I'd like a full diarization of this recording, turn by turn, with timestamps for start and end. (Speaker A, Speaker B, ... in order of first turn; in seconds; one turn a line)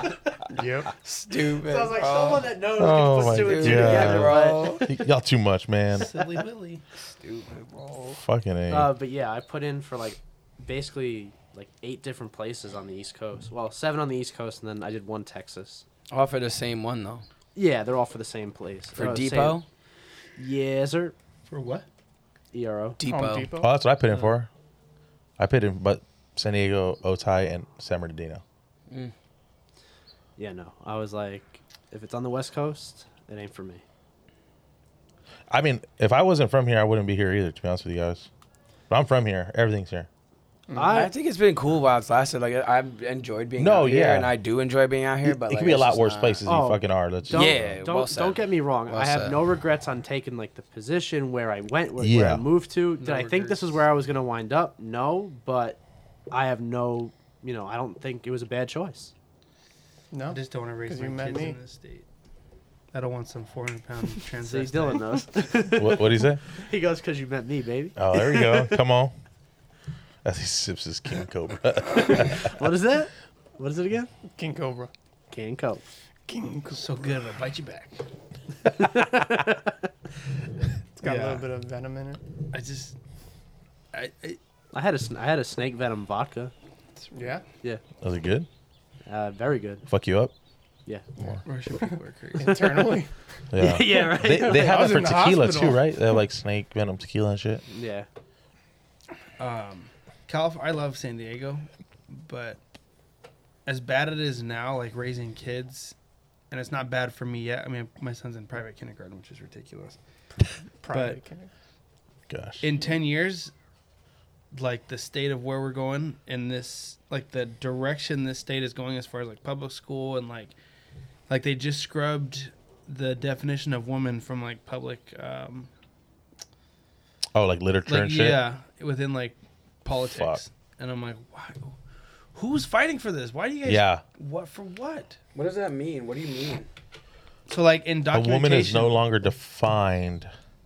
Speaker A: 0.5-0.9
Speaker B: 1.0-2.5
Speaker C: 1.5-4.8
Speaker D: 2.7-6.1
Speaker B: 3.2-4.9
Speaker E: 5.9-6.8
Speaker B: 7.2-8.1
Speaker D: 8.1-8.9
Speaker C: 8.7-15.8
Speaker B: 16.1-17.2
Speaker C: 17.6-19.6
Speaker B: 18.9-19.6
Speaker C: 20.4-21.1
Speaker E: 21.5-21.9
Speaker C: 22.5-23.0
Speaker B: 23.0-23.5
Speaker A: 23.1-23.7
Speaker D: 23.6-24.5
Speaker D: 25.4-28.4
Speaker C: 30.4-33.8
Speaker D: 35.5-38.3
Speaker D: 38.9-40.1
Speaker C: 40.7-41.1
Speaker B: 40.9-46.5
Speaker D: 43.6-44.3
Speaker D: 45.2-47.8
Speaker C: 46.5-55.8
Speaker B: 47.3-49.4
Speaker D: 52.0-52.5
Speaker E: 53.0-53.8
Speaker C: 56.3-59.1
Speaker A: 60.1-61.6
Speaker E: 60.3-62.1
Speaker E: 62.9-65.0
Speaker C: 64.4-68.8
Speaker D: 65.7-66.4
Speaker D: 68.0-69.1
Speaker D: 70.2-72.5
Speaker C: 72.0-74.1
Speaker A: 74.2-74.9
Speaker C: 75.3-75.8
Speaker A: 76.3-77.0
Speaker E: 76.7-78.0
Speaker C: 78.7-79.8
Speaker A: 81.0-82.2
Speaker E: 81.0-81.5
Speaker E: 82.5-83.0
Speaker E: 83.9-84.4
Speaker C: 84.7-86.5
Speaker E: 87.0-87.3
Speaker A: 87.1-87.4
Speaker D: 88.0-88.5
Speaker C: 89.0-89.9
Speaker D: 89.9-90.3
Speaker E: 91.5-92.8
Speaker A: 91.8-93.1
Speaker D: 93.5-97.6
Speaker C: 93.5-95.0
Speaker A: 94.4-95.8
Speaker C: 97.7-98.1
Speaker E: 99.4-102.6
Speaker E: 103.7-106.0
Speaker E: 106.5-110.0
Speaker A: 110.8-111.5
Speaker E: 110.9-111.2
Speaker D: 112.3-112.6
Speaker E: 112.6-113.5
Speaker E: 114.5-120.5
Speaker E: 121.3-125.7
Speaker D: 127.3-128.4
Speaker E: 127.9-131.8
Speaker D: 130.1-130.4
Speaker E: 132.3-135.2
Speaker D: 133.6-134.0
Speaker B: 135.3-136.7
Speaker E: 137.5-139.0
Speaker D: 138.1-140.3